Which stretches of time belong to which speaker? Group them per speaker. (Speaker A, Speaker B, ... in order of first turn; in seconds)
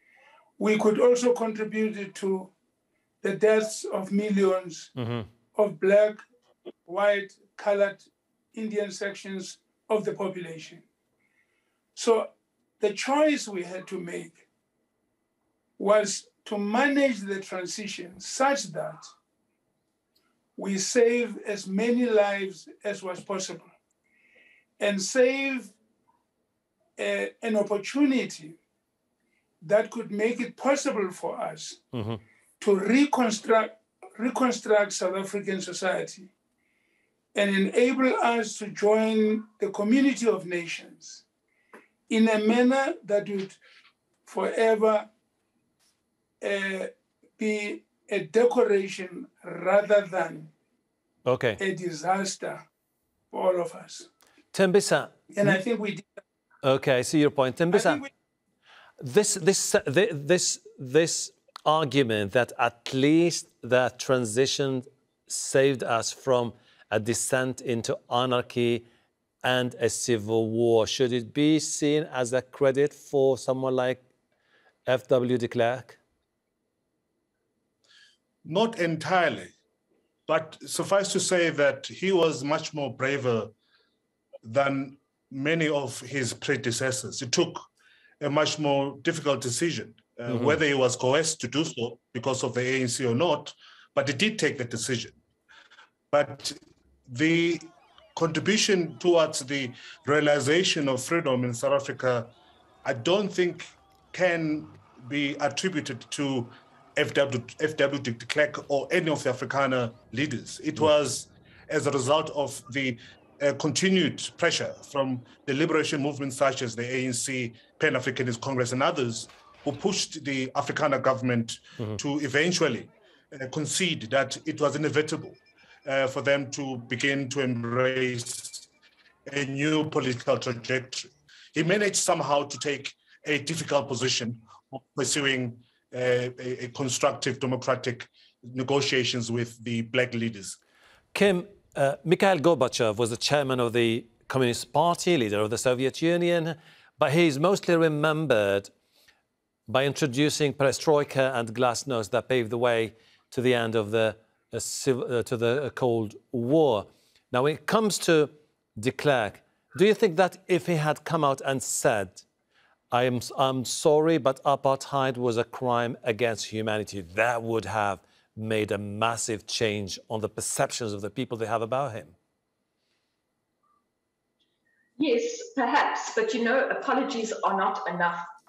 Speaker A: 0.6-2.5, 3.2-4.9, 5.5-6.2, 6.9-10.8, 11.9-14.4, 15.8-19.1, 20.6-23.7, 24.8-25.7, 27.0-28.6, 29.6-31.8, 32.6-36.3, 37.4-41.2, 42.1-43.6, 44.3-45.1, 46.4-50.5, 51.6-52.7, 53.3-54.1, 55.3-56.1, 57.7-58.1
Speaker B: 5.0-5.3, 31.9-32.2, 51.3-51.6, 54.5-55.6, 56.6-58.0, 59.0-68.8, 69.4-74.0, 74.9-76.0, 90.3-90.6, 141.1-148.7, 149.7-162.2, 162.9-172.2
Speaker C: 78.5-79.5, 80.3-83.5, 84.4-87.7, 88.2-95.2, 96.1-102.3, 102.8-128.7, 129.3-140.6
Speaker D: 175.0-178.3